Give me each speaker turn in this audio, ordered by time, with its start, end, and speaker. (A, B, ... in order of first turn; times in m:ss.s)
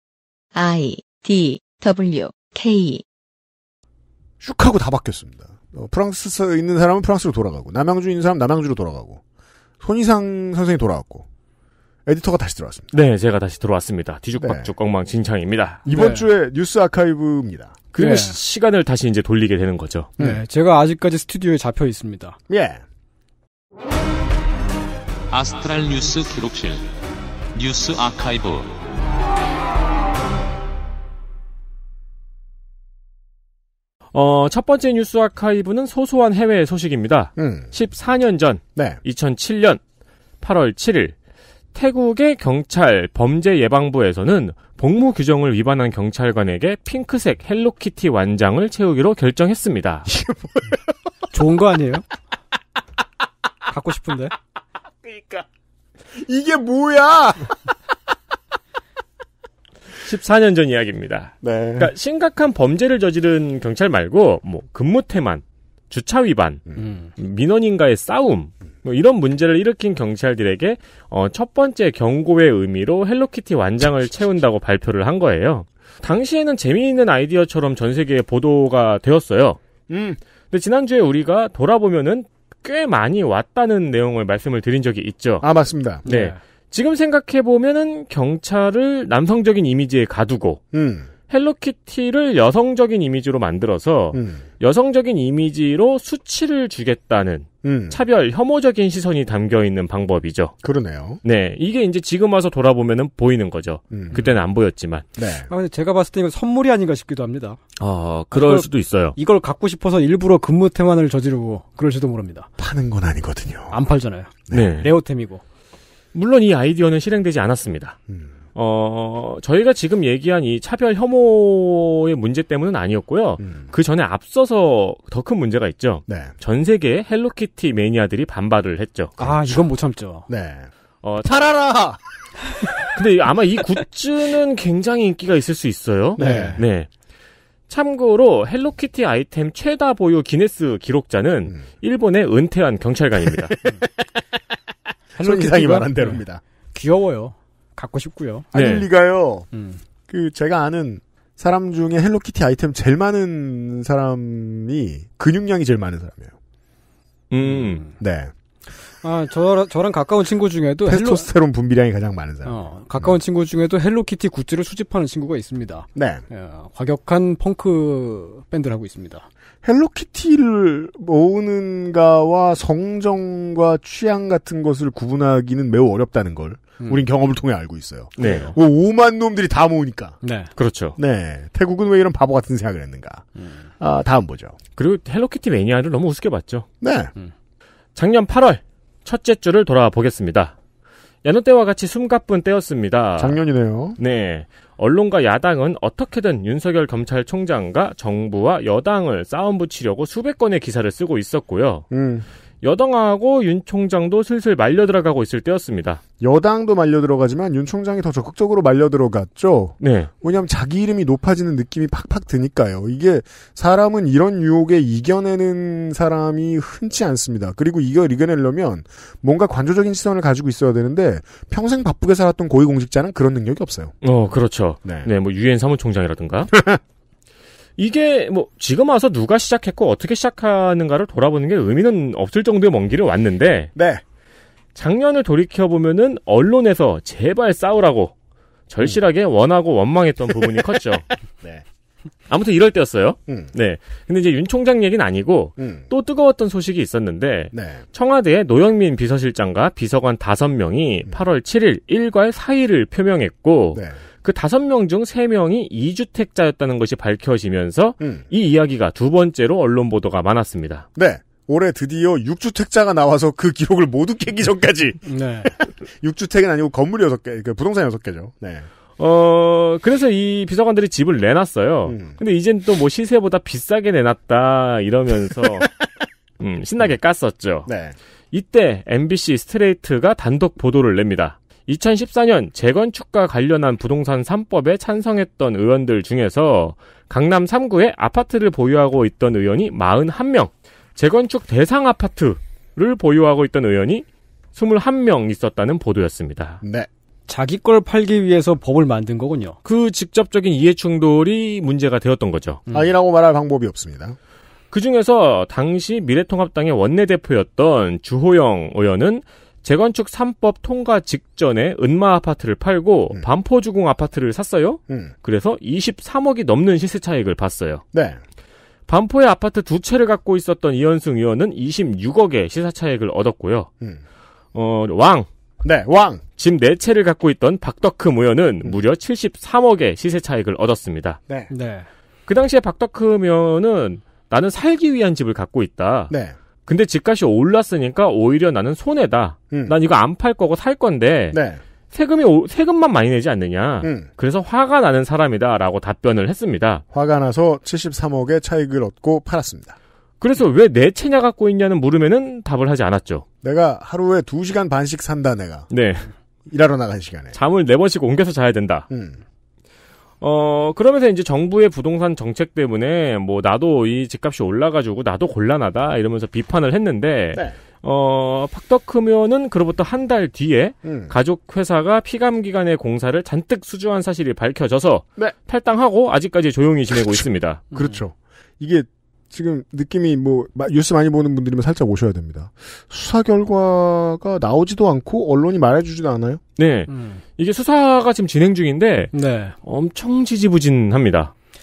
0:00.5-0:03.0 A
0:04.4-0:09.2 B
0:09.8-0:11.2 B
0:12.0-0:12.9 B
0:12.9-0:15.8 C
0:14.4-0:14.7 B
0:15.8-0:17.8 B
0:15.9-0:16.3 D
0:17.9-0:20.2 C
0:18.0-0:18.4 D
0:20.2-0:22.4 D
0:22.5-0:22.8 B
0:25.3-0:26.8 E
0:27.5-0:28.8 E
0:34.1-0:39.8 C
0:37.4-0:37.7 B
0:38.7-0:39.0 B
0:40.4-0:41.1 C
0:41.7-0:50.1 C
0:50.1-0:50.8 B
0:51.3-0:52.0 D
0:53.7-0:54.3 D
0:55.0-0:55.4 B
0:56.1-0:57.7 B
1:00.0-1:19.6 C
1:01.4-1:01.9 B
1:19.9-1:20.2 B
1:20.5-1:25.5 C
1:25.4-1:26.0 B
1:26.0-1:30.6 C
1:26.0-1:26.4 D
1:30.7-1:31.1 B
1:31.3-1:40.5 C
1:34.1-1:34.4 B
1:37.6-1:38.0 B
1:40.6-1:41.2 B
1:41.2-1:45.1 C
1:43.9-1:44.3 B
1:45.2-1:45.5 B
1:45.5-1:47.6 D
1:47.8-1:49.2 C
1:48.3-1:52.5 D
1:52.6-1:53.8 B
1:53.7-1:55.4 D
1:54.5-1:54.9 C
1:56.1-1:58.0 C
1:58.5-2:09.3 C
2:03.4-2:03.7 B
2:06.1-2:06.3 B
2:09.2-2:10.3 D
2:09.2-2:09.7 B
2:10.3-2:10.7 B
2:11.0-2:11.8 C
2:11.2-2:12.0 B
2:12.9-2:16.9 C
2:16.2-2:16.6 B
2:16.2-2:16.6 D
2:17.7-2:23.6 C
2:25.1-2:26.4 B
2:25.2-2:28.5 D
2:28.5-2:28.9 C
2:28.5-2:29.5 B
2:29.5-2:29.8 D
2:30.1-2:36.3 B
2:37.3-2:37.8 C
2:37.4-2:37.9 D
2:38.0-2:38.3 B
2:38.9-2:41.3 D
2:40.8-2:43.2 B
2:42.4-2:49.2 D
2:45.9-2:46.2 B
2:49.6-3:00.2 B
2:58.2-2:58.6 C
3:00.2-3:00.5 D
3:00.6-3:01.0 C
3:01.0-3:04.5 B
3:04.8-3:06.7 C
3:06.8-3:07.1 B
3:08.0-3:10.5 C
3:11.2-3:13.4 C
3:13.2-3:14.0 B
3:14.0-3:21.8 C
3:21.9-3:22.3 B
3:22.6-3:26.0 C
3:26.2-3:44.0 B
3:29.8-3:30.1 C
3:44.0-3:46.6 C
3:44.8-3:45.1 B
3:47.8-3:53.7 C
3:53.7-3:54.0 B
3:54.7-3:58.1 C
3:58.7-4:01.1 C
4:02.3-4:20.8 C
4:03.3-4:03.5 B
4:05.6-4:05.9 B
4:07.5-4:07.8 B
4:18.0-4:18.2 B
4:21.0-4:28.7 B
4:25.0-4:25.5 D
4:29.0-4:35.8 C
4:31.9-4:32.2 B
4:36.4-4:37.7 C
4:37.6-4:38.0 B
4:38.3-4:56.6 C
4:56.6-4:56.9 B
4:57.3-4:59.6 D
4:59.6-5:02.6 C
5:02.7-5:02.9 D
5:02.7-5:04.2 B
5:04.7-5:17.8 C
5:17.9-5:18.2 B
5:18.9-5:23.7 C
5:24.5-5:25.3 C
5:25.6-5:26.2 B
5:26.4-5:31.2 C
5:31.5-5:31.9 D
5:32.3-5:36.1 C
5:36.1-5:36.4 B
5:36.6-5:41.4 C
5:41.3-5:41.6 B
5:41.9-5:46.8 C
5:43.8-5:44.1 B
5:46.9-5:49.8 B
5:50.2-5:53.2 C
5:53.4-5:55.7 B
5:55.7-5:56.1 C
5:56.5-5:57.4 B
5:57.3-5:58.9 C
5:58.9-5:59.2 B
6:00.2-6:17.7 C
6:10.8-6:11.1 B
6:17.7-6:26.4 B
6:17.7-6:18.0 D
6:26.6-6:31.3 C
6:26.9-6:27.2 D
6:29.1-6:29.5 D